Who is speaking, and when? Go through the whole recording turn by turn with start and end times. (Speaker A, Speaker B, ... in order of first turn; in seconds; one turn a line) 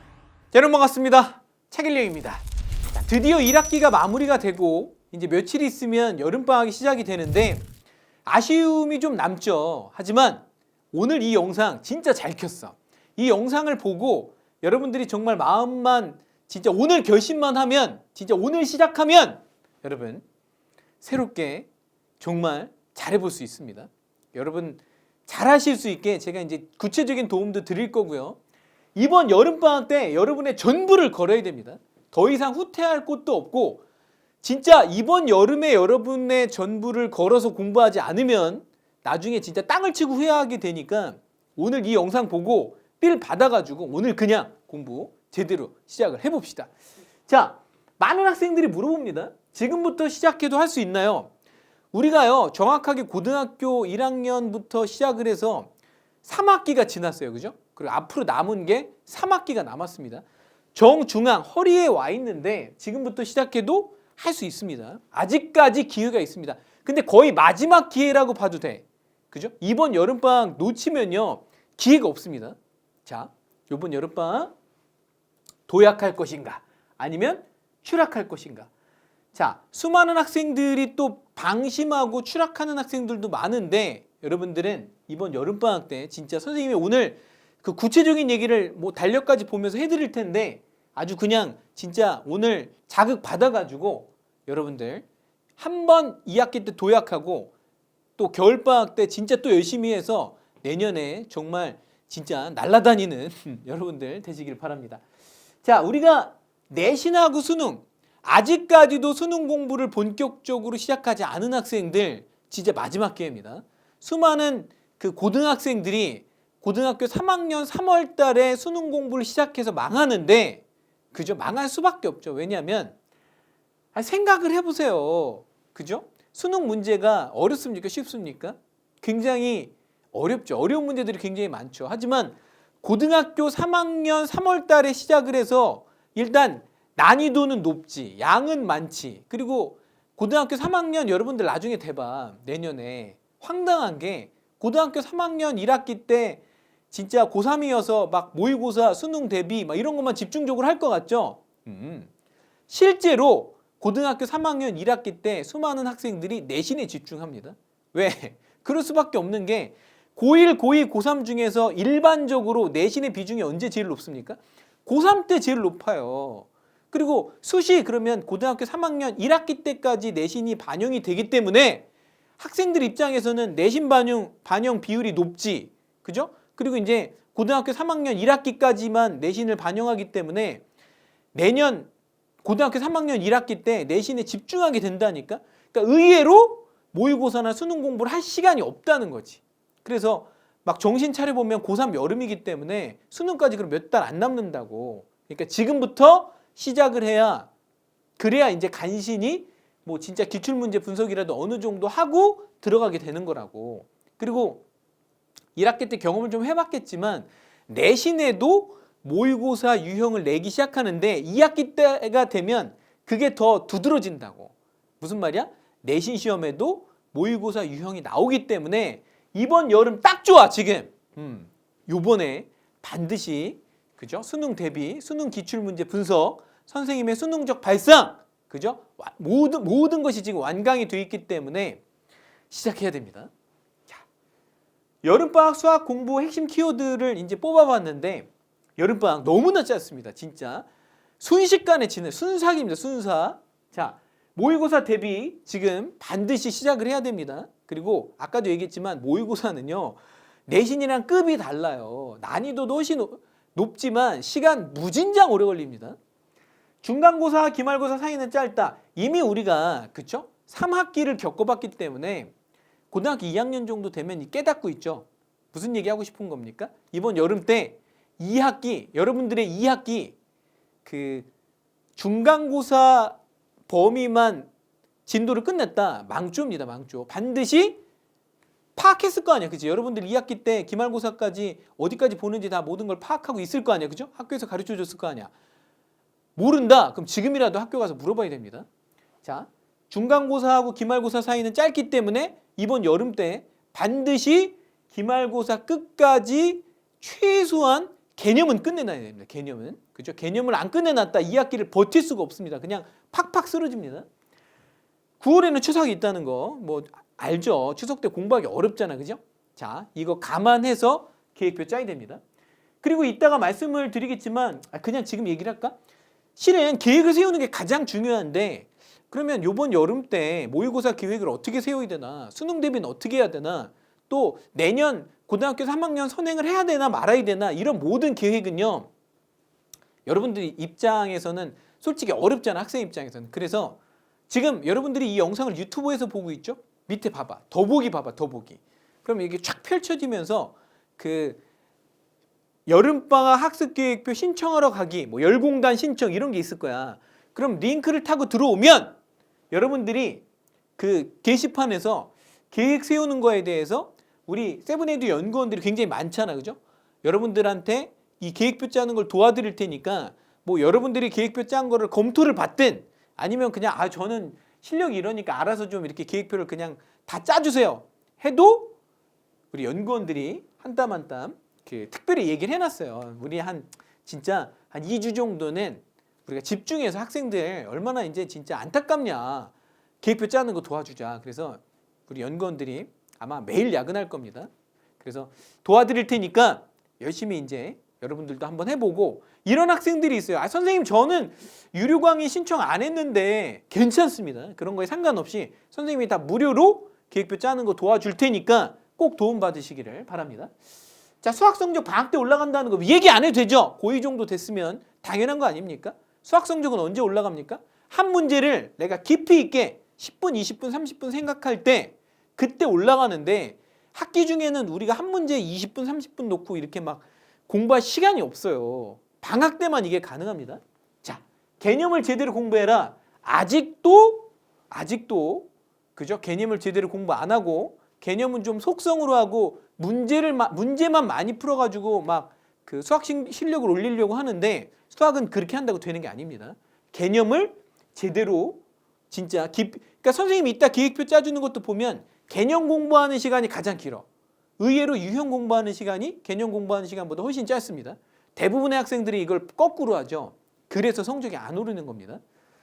Speaker A: 0.5-7.6
Speaker A: 8.2-20.2
Speaker A: 21.0-21.7
Speaker A: 22.2-28.4
Speaker A: 28.9-33.8
Speaker A: 34.4-46.7
Speaker A: 47.3-51.3
Speaker A: 51.9-55.7
Speaker A: 56.2-74.5
Speaker A: 75.7-78.7
Speaker A: 79.3-95.0
Speaker A: 95.6-97.5
Speaker A: 98.2-105.0
Speaker A: 105.6-122.9
Speaker A: 123.9-152.1
Speaker A: 152.7-171.8
Speaker A: 172.4-180.6
Speaker A: 181.3-181.9
Speaker A: 182.4-197.5
Speaker A: 198.2-204.6
Speaker A: 205.6-231.8
Speaker A: 232.5-233.3
Speaker A: 235.0-240.7
Speaker A: 241.2-255.9
Speaker A: 256.8-262.3
Speaker A: 262.9-270.1
Speaker A: 270.8-271.3
Speaker A: 271.9-273.2
Speaker A: 273.7-274.5
Speaker A: 275.1-277.8
Speaker A: 278.8-285.3
Speaker A: 286.4-288.6
Speaker A: 289.2-304.1
Speaker A: 305.2-312.2
Speaker A: 312.8-315.8
Speaker A: 316.4-328.9
Speaker A: 330.1-341.4
Speaker A: 342.7-348.9
Speaker A: 349.5-350.2
Speaker A: 350.8-368.8
Speaker A: 369.5-384.5
Speaker A: 385.0-400.5
Speaker A: 401.2-444.1
Speaker A: 444.6-452.2